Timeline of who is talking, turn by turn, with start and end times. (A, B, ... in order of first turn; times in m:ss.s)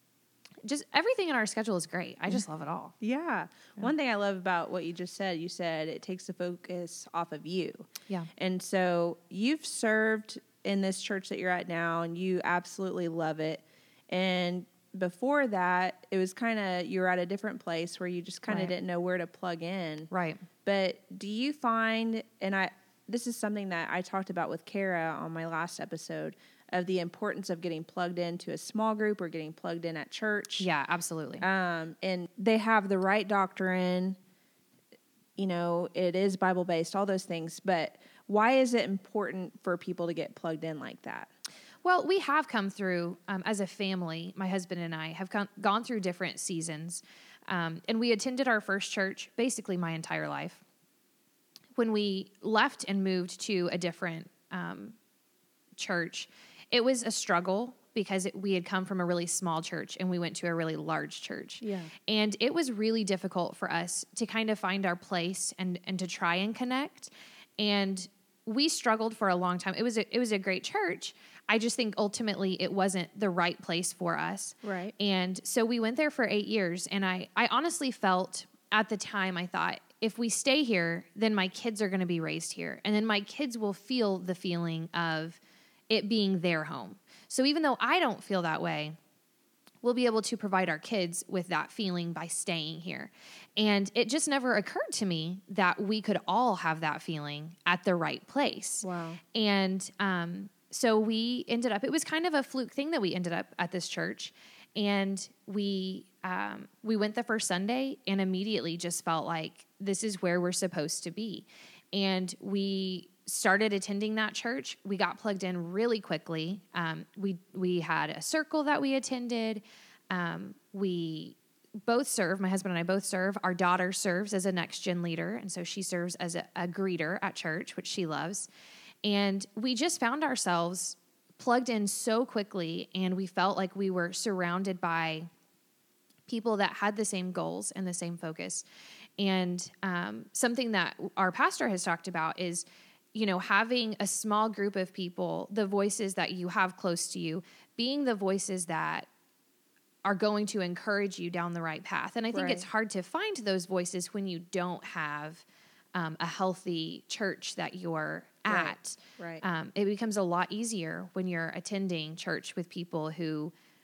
0:00.6-0:02.9 A
0:03.0-0:20.1 B
0:18.5-0:18.7 A
0:20.1-0:20.4 A
0:20.6-0:30.7 B
0:30.6-0:31.4 A
0:31.4-0:34.2 B
0:35.4-0:41.3 B
0:41.8-0:50.6 A
0:51.8-0:55.0 A
0:55.8-1:29.0 A
1:01.6-1:01.9 B
1:14.6-1:14.9 B
1:29.8-2:08.5 A
1:38.8-1:39.2 B
2:09.0-2:15.3 A
2:16.3-2:18.6 A
2:19.2-2:29.1 A
2:30.0-2:43.5 A
2:32.3-2:32.6 B
2:38.4-2:39.4 B